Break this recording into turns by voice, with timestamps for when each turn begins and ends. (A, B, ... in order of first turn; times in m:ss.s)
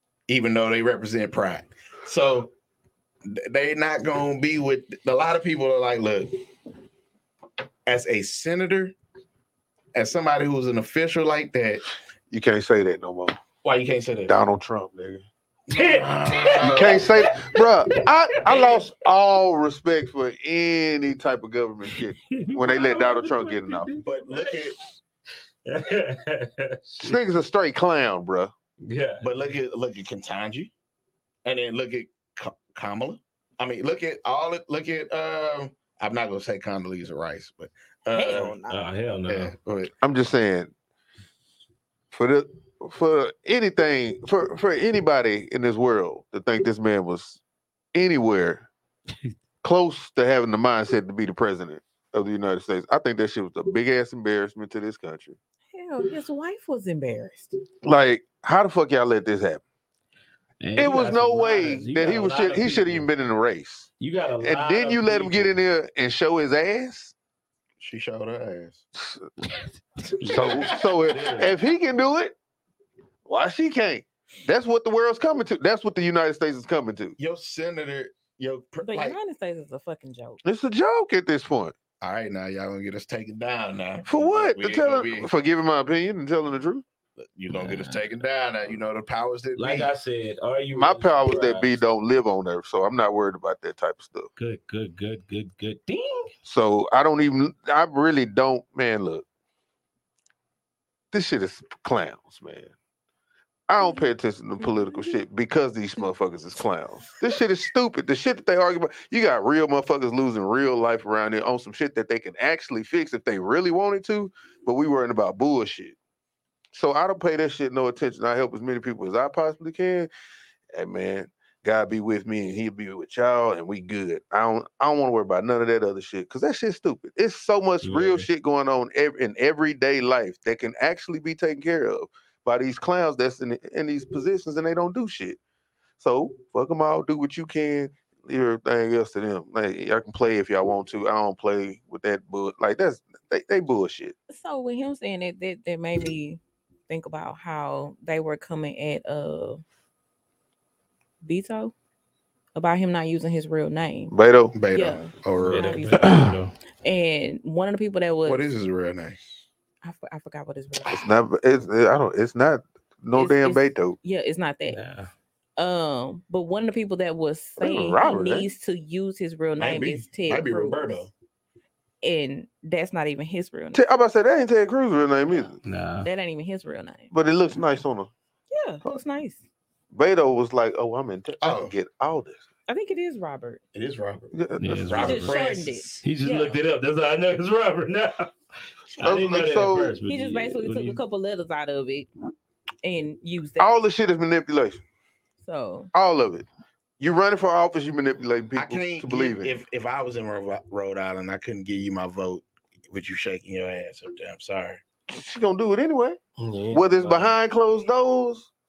0:00.3-0:02.5 A
0:03.2-0:06.3 A
0:07.8-0:08.9 A
0:09.9-0:11.8 A
0:12.3-0:13.4 B
0:13.6-0:14.3 A
0:14.3-0:15.2 B
0:15.7-0:18.0 C
0:15.7-0:17.0 A
0:16.6-0:23.9 B
0:22.3-0:24.6 C
0:24.0-0:24.8 A
0:25.6-0:27.2 C
0:27.0-0:28.5 B
0:28.8-0:29.3 C
0:29.2-0:30.7 A
0:31.4-0:38.6 A
0:38.1-0:38.8 D
0:38.6-0:39.5 C
0:39.3-0:39.9 A
0:40.0-0:40.7 B
0:42.1-0:47.4 B
0:47.9-0:48.7 B
0:49.6-0:55.4 B
0:55.7-0:57.5 D
0:57.8-0:59.6 B
1:00.6-1:03.1 C
1:00.8-1:03.9 B
1:04.0-1:05.5 C
1:04.4-1:07.1 B
1:07.8-1:08.8 A
1:09.0-1:09.3 B
1:09.6-1:11.5 C
1:10.2-1:12.3 B
1:10.4-1:10.9 A
1:13.2-1:17.2 B
1:17.2-1:19.2 A
1:18.8-1:20.4 D
1:20.4-1:21.7 B
1:22.0-1:25.3 A
1:24.0-1:26.8 B
1:27.2-1:29.9 A
1:27.5-1:28.0 C
1:29.6-1:31.8 C
1:30.8-1:34.3 B
1:34.4-1:36.3 C
1:36.4-1:39.2 B
1:41.1-1:42.7 B
1:43.7-1:56.0 B
1:43.8-1:44.0 D
1:44.6-1:45.2 D
1:56.7-2:00.1 B
2:00.7-2:15.4 B
2:07.8-2:08.3 C
2:16.0-2:24.1 B
2:24.3-2:29.6 D
2:31.2-2:31.7 D
2:32.5-2:34.1 D
2:34.1-2:34.5 B
2:34.5-2:35.8 A
2:34.7-2:36.2 D
2:35.4-2:36.5 C
2:36.0-2:36.3 B
2:36.8-2:38.4 D
2:38.2-2:39.2 A
2:39.8-2:41.1 D
2:40.9-2:44.0 B
2:43.1-2:44.8 D
2:44.7-2:45.1 C
2:45.6-2:50.8 D
2:47.6-2:48.5 B
2:49.6-2:51.1 A
2:52.0-2:53.8 D
2:53.7-2:55.6 B
2:55.6-2:56.1 C
2:56.0-2:57.1 D
2:57.1-2:58.1 B
2:58.5-2:59.4 D
2:59.9-3:02.4 B
3:01.4-3:01.7 A
3:02.7-3:03.6 D
3:03.7-3:06.0 A
3:04.3-3:05.1 B
3:04.6-3:05.4 C
3:05.0-3:06.6 D
3:06.0-3:08.3 C
3:09.0-3:11.0 C
3:09.0-3:09.9 B
3:10.1-3:12.1 D
3:12.8-3:13.8 D
3:13.6-3:14.8 B
3:15.4-3:15.9 D
3:15.9-3:16.4 B
3:17.0-3:19.5 B
3:18.6-3:24.8 A
3:25.1-3:26.2 B
3:26.4-3:27.3 C
3:26.7-3:28.5 B